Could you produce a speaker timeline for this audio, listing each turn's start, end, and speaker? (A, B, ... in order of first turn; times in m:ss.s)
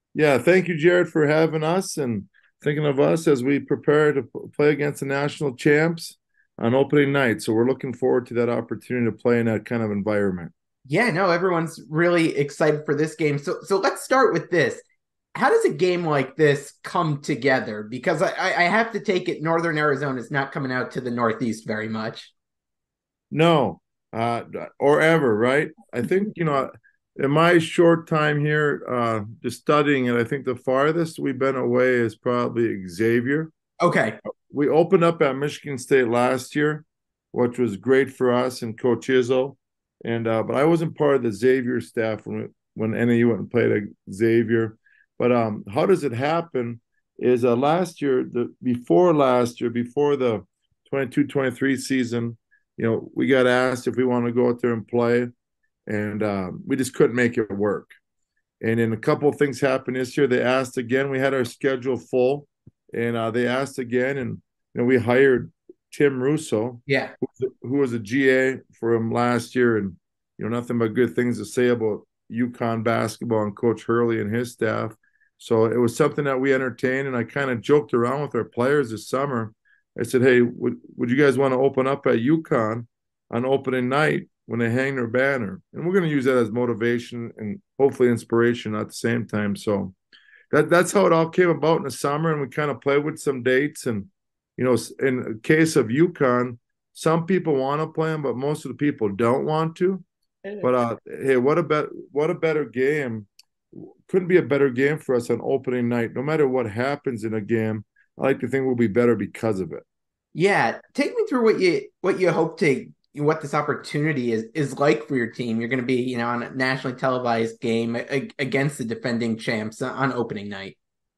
0:00.2-0:10.5 A
0:10.9-0:14.8 B
0:15.4-0:22.3 B
0:23.3-0:33.5 A
0:33.8-0:34.2 B
0:34.5-0:55.3 A
0:55.9-0:57.9 A
0:58.6-1:30.0 A
1:06.9-1:07.2 B
1:30.5-1:40.0 A
1:40.6-1:49.8 A
1:50.3-2:00.8 B